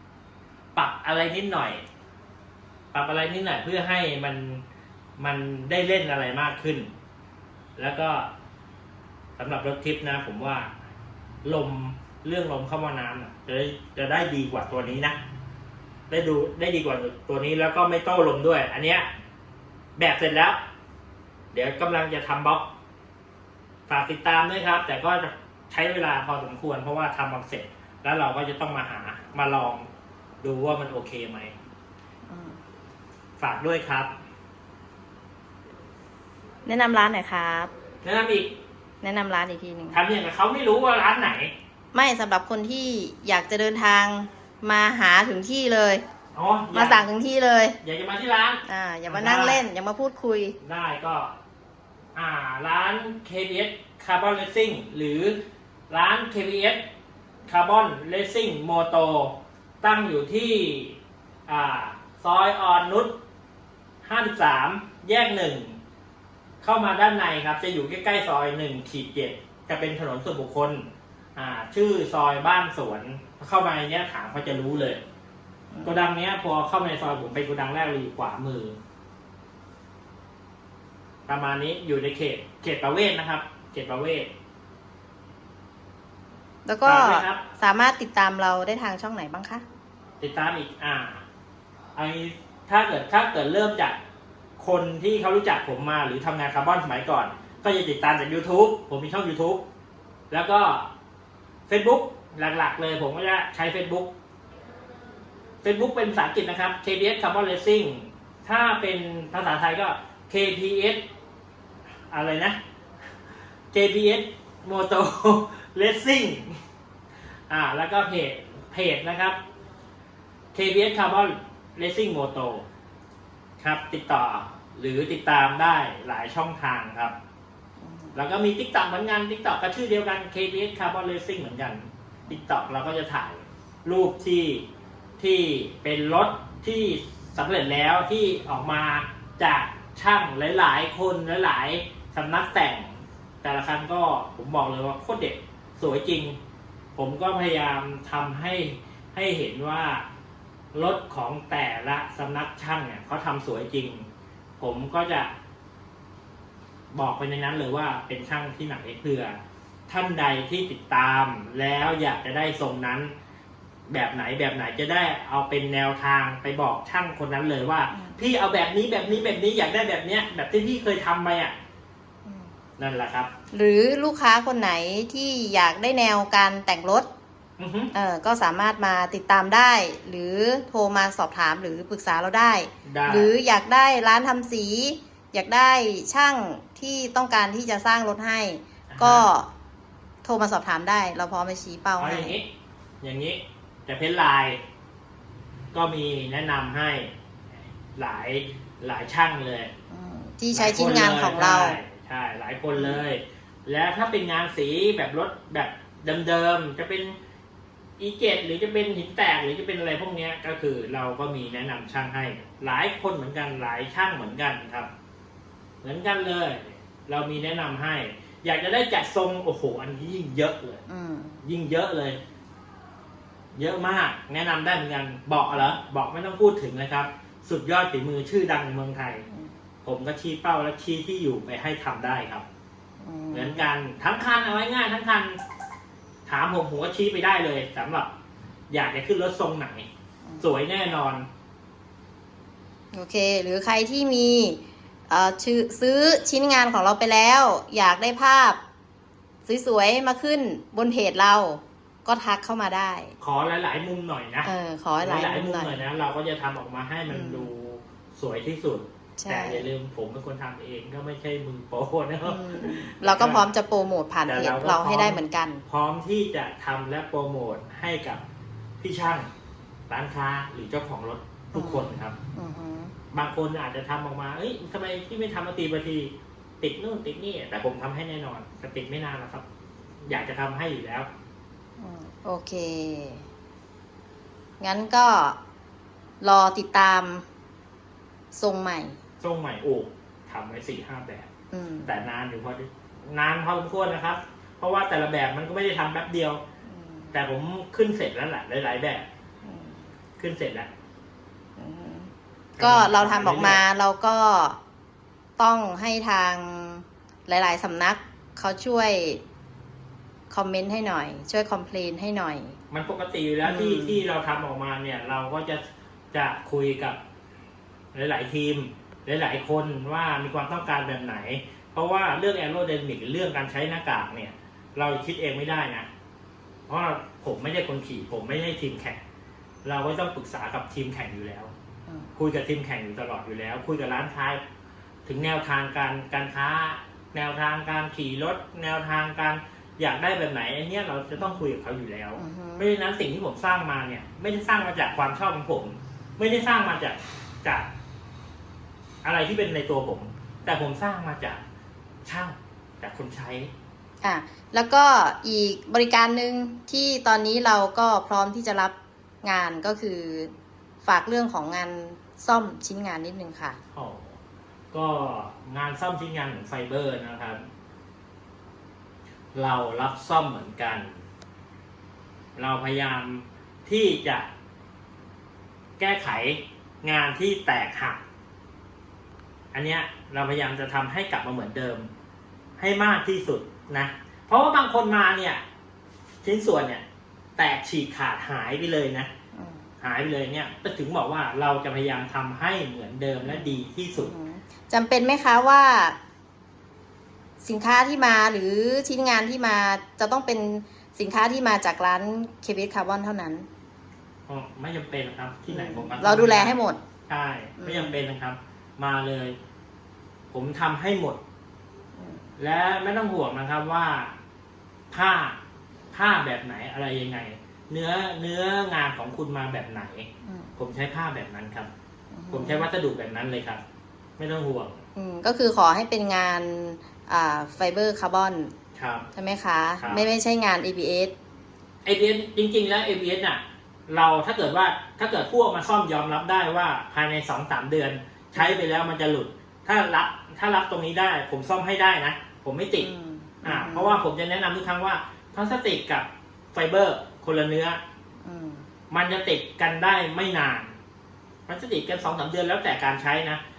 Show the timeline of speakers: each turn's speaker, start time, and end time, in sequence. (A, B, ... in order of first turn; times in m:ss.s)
0:00.7-0:01.8 A
0:02.9-0:04.6 A
0:05.2-0:06.9 A
0:07.8-0:08.3 A
0:09.4-0:10.7 A
0:11.4-0:15.2 A
0:16.1-0:19.1 A
0:20.0-0:20.6 A
0:21.5-0:22.7 A
0:23.9-0:29.8 A
0:30.4-0:31.5 A
0:32.3-0:32.6 B
0:33.4-0:34.1 A
0:36.7-0:37.7 B
0:38.0-0:38.5 A
0:39.0-0:40.0 B
0:39.9-0:41.5 A
0:41.9-0:46.0 B
0:46.3-0:47.1 A
0:46.7-0:47.8 B
0:47.8-0:49.6 A
0:48.6-0:50.6 B
0:50.6-0:51.3 A
0:52.1-0:55.4 A
0:55.9-0:56.8 A
0:57.5-1:03.1 A
1:04.0-1:05.8 A
1:06.6-1:15.0 A
1:15.8-1:18.8 A
1:21.3-1:24.3 A
1:26.7-1:29.6 B
1:26.8-1:27.4 A
1:30.2-1:31.2 A
1:31.9-1:34.0 A
1:34.6-1:39.6 A
1:40.3-1:40.9 A
1:41.7-1:44.1 A
1:45.6-1:51.0 A
1:52.1-1:52.6 A
1:53.7-1:56.6 A
1:57.5-1:59.4 A
2:00.5-2:02.6 A
2:03.6-2:07.1 A
2:07.8-2:08.2 B
2:08.1-2:14.6 A
2:15.2-2:26.4 A
2:26.9-2:30.0 A
2:30.7-2:34.1 A
2:34.6-2:35.3 A
2:36.9-2:43.1 A
2:43.9-2:51.5 A
2:47.9-2:48.2 B
2:52.2-2:52.5 B
2:52.8-2:53.3 A
2:53.5-2:57.1 B
2:57.6-2:57.9 A
2:57.9-3:09.5 B
3:02.8-3:03.3 A
3:08.9-3:09.3 A
3:10.2-3:12.3 B
3:12.0-3:12.5 A
3:13.0-3:14.6 A
3:15.7-3:17.1 A
3:17.9-3:19.7 A
3:19.9-3:21.8 B
3:20.5-3:27.2 A
3:22.7-3:23.0 B
3:28.0-3:34.9 A
3:35.8-3:40.8 A
3:40.9-3:41.4 B
3:41.4-3:42.2 A
3:43.5-3:49.2 A
3:49.3-3:49.5 B
3:49.8-3:52.5 A
3:53.0-3:53.7 B
3:53.3-3:55.4 A
3:56.2-3:58.1 A
3:58.7-3:59.9 A
4:00.4-4:01.2 A
4:02.9-4:08.6 B
4:09.5-4:13.1 B
4:13.2-4:23.5 A
4:14.4-4:15.8 B
4:17.1-4:17.5 B
4:19.2-4:19.6 B
4:22.2-4:25.6 B
4:24.2-4:28.2 A
4:28.8-4:29.3 A
4:29.9-4:32.2 A
4:31.5-4:32.9 B
4:33.1-4:39.5 A
4:40.0-4:41.1 A
4:41.8-4:43.2 B
4:44.6-4:45.4 B
4:46.2-4:47.2 B
4:48.3-4:49.0 B
4:49.2-4:51.3 A
4:51.5-4:52.0 B
4:51.9-4:56.4 A
4:56.6-4:57.2 B
4:57.1-4:59.0 A
4:59.4-4:59.9 B
5:00.2-5:00.7 A
5:01.6-5:04.6 B
5:02.6-5:03.6 A
5:05.4-5:09.2 B
5:10.3-5:12.6 B
5:12.7-5:17.0 A
5:13.4-5:14.0 B
5:17.9-5:25.9 A
5:26.7-5:29.0 A
5:29.6-5:31.5 A
5:31.9-5:32.1 B
5:32.2-5:34.4 A
5:35.1-5:47.7 A
5:42.2-5:42.6 B
5:49.0-5:51.4 A
5:52.0-5:53.5 A
5:54.0-6:03.6 B
6:03.7-6:04.2 A
6:04.7-6:07.4 A
6:09.3-6:11.0 A
6:12.4-6:14.3 A
6:15.8-6:18.0 A
6:19.5-6:21.9 A
6:22.6-6:25.4 A
6:26.2-6:26.8 A
6:27.4-6:29.1 A
6:29.3-6:29.6 B
6:29.8-6:34.1 A
6:33.2-6:36.0 B
6:37.4-6:43.5 B
6:44.3-6:46.6 A
6:45.5-6:46.8 B
6:47.1-6:49.4 A
6:47.6-6:48.0 B
6:50.3-6:51.2 A
6:52.0-6:52.3 B
6:52.4-6:54.1 A
6:54.9-6:55.4 A
6:55.9-7:01.7 A
7:00.2-7:00.5 B
7:02.1-7:02.7 B
7:02.3-7:03.6 A
7:04.2-7:04.8 A
7:05.0-7:08.5 B
7:08.8-7:09.1 A
7:09.1-7:11.1 B
7:11.8-7:22.9 A
7:18.4-7:18.6 B
7:22.8-7:24.0 B
7:23.4-7:27.8 A
7:28.2-7:28.7 B
7:28.9-7:30.7 A
7:31.5-7:33.4 A